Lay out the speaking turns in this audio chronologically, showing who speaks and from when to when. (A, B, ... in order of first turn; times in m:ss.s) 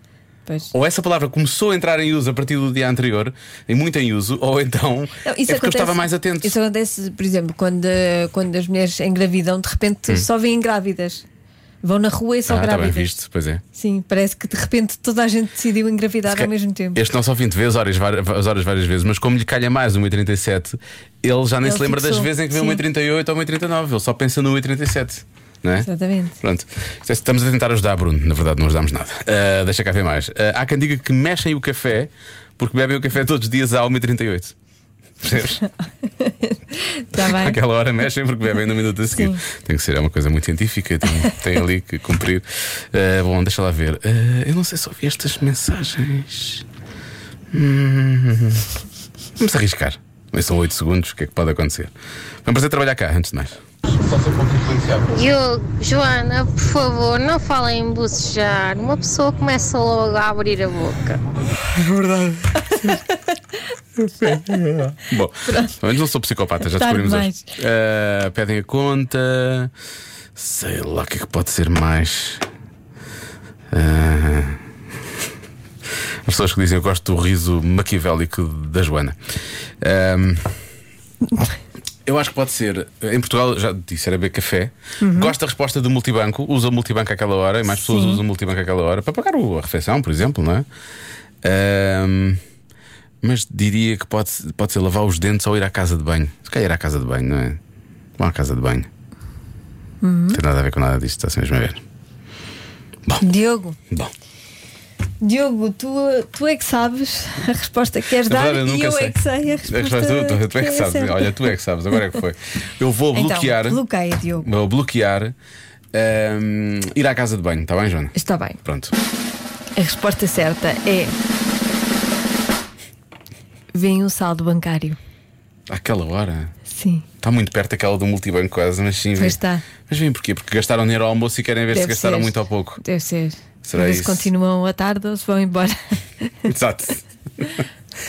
0:00.7-0:06.5 A
0:05.2-0:11.2 B
0:11.8-0:13.2 B
0:12.5-0:13.6 A
0:13.8-0:17.0 B
0:16.3-0:25.9 A
0:21.6-0:22.8 B
0:25.8-0:26.4 B
0:26.4-0:34.5 A
0:35.2-0:35.6 A
0:36.0-0:37.6 B
0:37.2-0:46.6 A
0:39.1-0:39.4 B
0:47.5-0:48.7 A
0:49.4-0:51.9 A
0:52.4-0:55.0 A
0:55.1-1:01.2 C
1:01.7-1:02.9 A
1:04.0-1:09.7 A
1:05.5-1:05.8 B
1:06.7-1:07.5 B
1:10.4-1:12.4 A
1:13.7-1:14.6 A
1:16.3-1:19.2 A
1:19.8-1:20.5 A
1:22.1-1:30.7 A
1:25.0-1:25.3 B
1:27.7-1:28.2 B
1:31.4-1:32.4 A
1:33.2-1:37.6 A
1:38.2-1:38.9 A
1:40.0-1:40.4 B
1:40.3-1:41.8 A
1:43.2-1:43.8 B
1:45.2-1:51.4 B
1:48.3-1:49.2 A
1:49.7-1:53.8 A
1:53.1-1:54.5 B
1:54.4-1:55.3 A
1:55.9-1:58.1 A
1:58.2-1:58.6 B
1:58.6-1:58.9 A
1:59.8-2:01.2 B
2:03.7-2:05.0 B
2:05.7-2:06.5 A
2:06.7-2:07.0 B
2:07.2-2:12.8 A
2:09.2-2:09.6 B
2:11.7-2:16.3 B
2:13.6-2:14.3 A
2:16.5-2:17.6 A